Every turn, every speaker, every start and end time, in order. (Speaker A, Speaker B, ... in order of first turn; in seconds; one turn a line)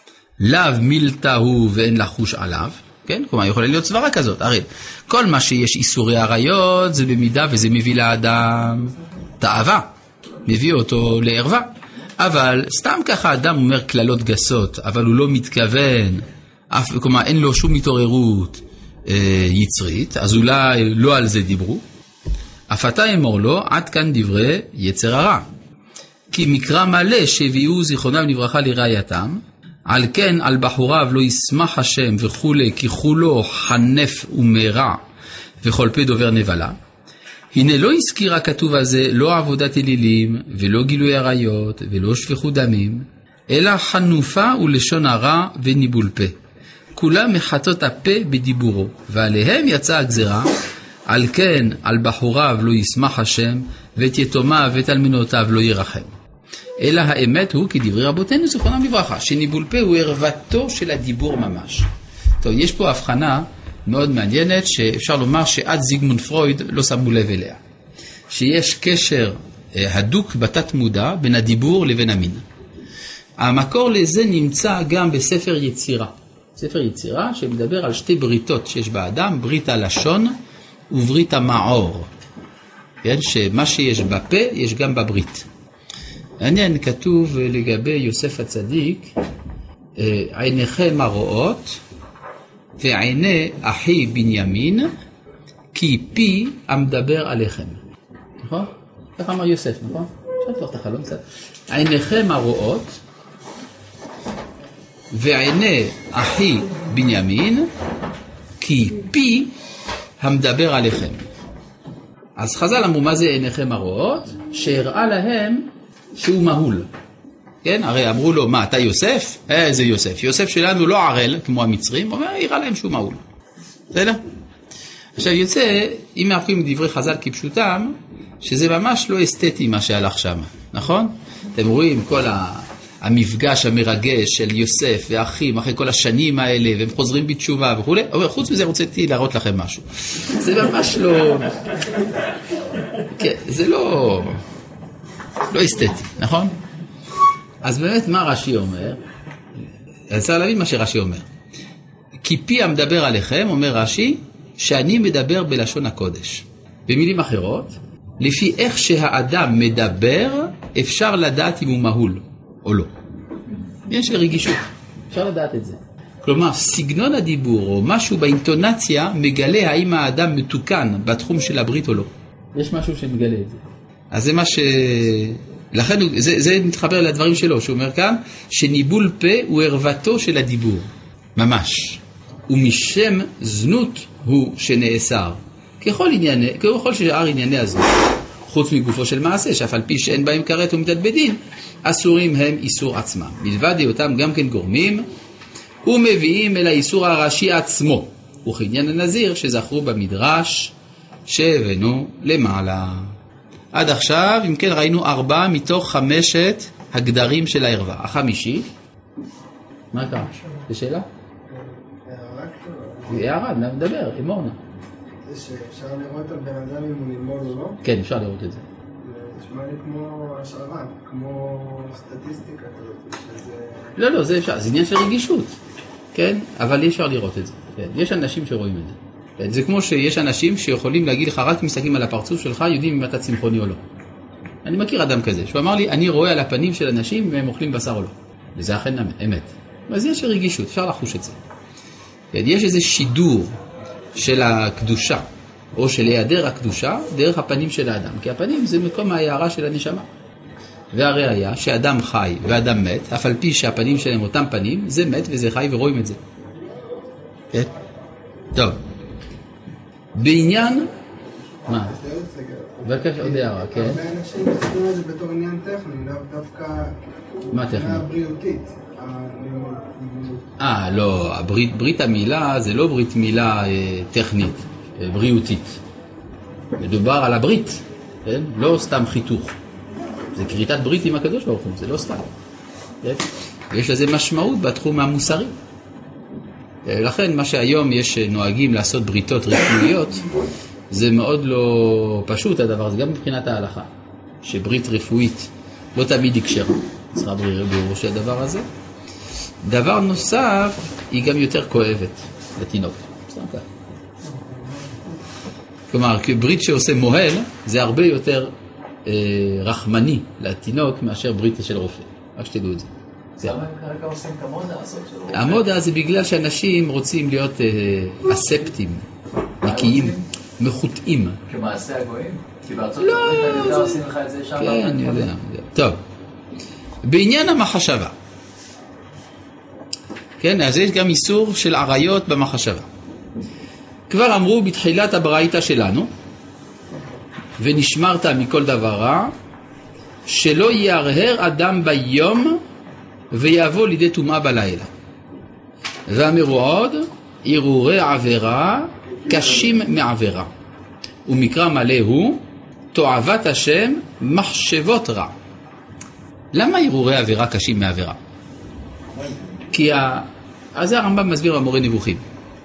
Speaker A: 0.4-9.9
Speaker A: 10.5-21.8
Speaker A: 22.7-25.5
Speaker A: 26.3-35.0
Speaker A: 35.6-36.8
Speaker A: 37.5-46.4
Speaker A: 47.0-50.5
Speaker A: 51.1-56.1
Speaker A: 56.8-61.9
Speaker A: 62.4-67.6
Speaker A: 68.3-72.4
Speaker A: 73.4-80.3
Speaker A: 80.9-82.1
Speaker A: 83.0-85.5
Speaker A: 86.4-89.1
Speaker A: 90.0-91.8
Speaker A: 92.8-94.9
Speaker A: 95.7-97.8
Speaker A: 98.4-103.0
Speaker A: 105.1-107.7
Speaker A: 108.6-109.5
Speaker A: 110.2-111.3
Speaker A: 112.4-116.9
Speaker A: 117.6-123.2
Speaker A: 123.9-124.2
Speaker A: 125.2-141.6
Speaker A: 143.1-144.4
Speaker A: 145.5-146.6
Speaker A: 147.6-149.0
Speaker A: 150.1-151.3
Speaker A: 152.2-162.9
Speaker A: 163.9-195.1
Speaker A: 195.8-200.7
Speaker A: 201.3-203.1
Speaker A: 203.7-208.7
Speaker A: 209.9-211.1
Speaker B: 211.5-213.3
Speaker A: 213.1-214.6
Speaker B: 215.3-217.8
Speaker A: 217.8-218.7
Speaker B: 219.0-223.9
Speaker A: 224.0-225.6
Speaker A: 226.1-233.8
Speaker A: 234.7-241.4
Speaker A: 242.3-243.6
Speaker A: 244.2-250.1
Speaker A: 250.9-256.2
Speaker A: 260.2-260.9
Speaker A: 261.7-261.9
Speaker B: 261.7-267.0
Speaker A: 262.8-264.0
Speaker B: 267.5-270.4
Speaker A: 267.5-268.1
Speaker A: 270.6-275.8
Speaker A: 276.8-279.6
Speaker A: 280.3-282.3
Speaker A: 283.0-285.5
Speaker A: 286.9-290.2
Speaker A: 290.9-293.9
Speaker A: 294.4-298.7
Speaker A: 299.6-303.7
Speaker A: 305.9-308.5
Speaker A: 309.1-312.9
Speaker C: 313.4-315.6
Speaker A: 315.3-319.0
Speaker A: 319.6-321.4
Speaker C: 319.6-320.2
Speaker C: 321.5-325.3
Speaker A: 323.0-324.0
Speaker A: 324.6-326.0
Speaker A: 327.0-328.1
Speaker A: 330.4-332.9
Speaker A: 334.1-336.1
Speaker A: 337.6-339.3
Speaker A: 340.3-342.6
Speaker A: 343.3-344.9
Speaker A: 346.1-350.5
Speaker A: 351.3-352.4
Speaker A: 352.9-355.3
Speaker A: 356.5-358.2
Speaker A: 359.7-362.2